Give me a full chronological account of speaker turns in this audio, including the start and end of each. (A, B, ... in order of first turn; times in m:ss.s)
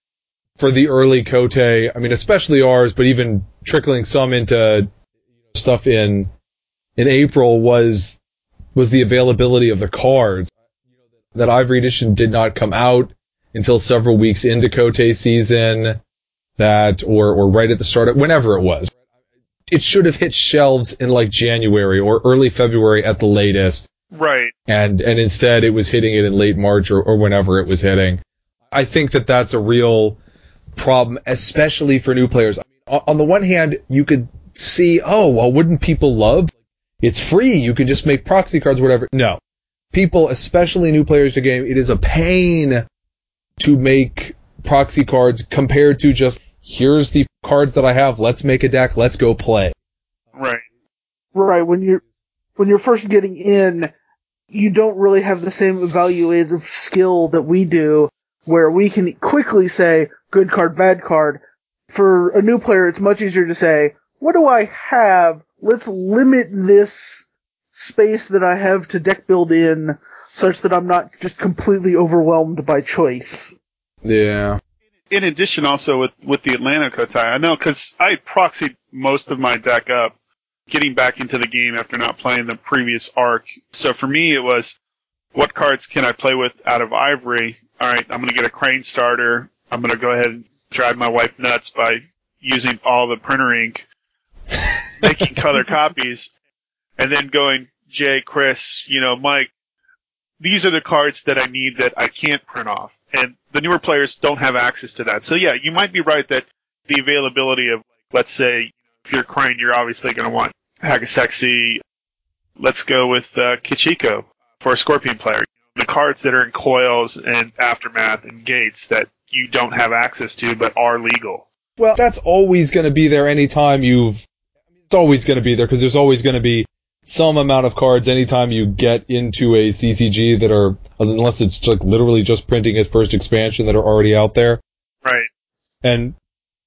0:00.6-0:04.9 A
0:05.5-0:06.3 A
0:07.0-0:08.2 A
0:08.8-0:10.5 A
0:11.3-0:16.0 A
0:16.6-0:18.9 A
0:19.7-0:23.9 A
0:24.1-0:24.5 B
0:24.7-0:28.2 A
0:28.7-0:30.2 A
0:30.8-0:39.4 A
0:39.9-0:42.8 A
0:43.6-0:49.8 A
0:50.4-0:50.6 B
0:51.4-0:52.0 C
0:52.6-0:53.9 C
0:54.5-1:13.5 C
1:14.0-1:14.6 A
1:15.1-1:20.1 B
1:20.7-1:24.8 B
1:25.3-1:33.9 B
1:34.5-1:35.2 A
1:35.0-1:36.3 B
1:37.0-1:39.5 B
1:40.4-1:51.8 B
1:52.6-2:01.5 B
2:01.8-2:04.2 A
2:04.9-2:14.6 A
2:15.8-2:16.2 A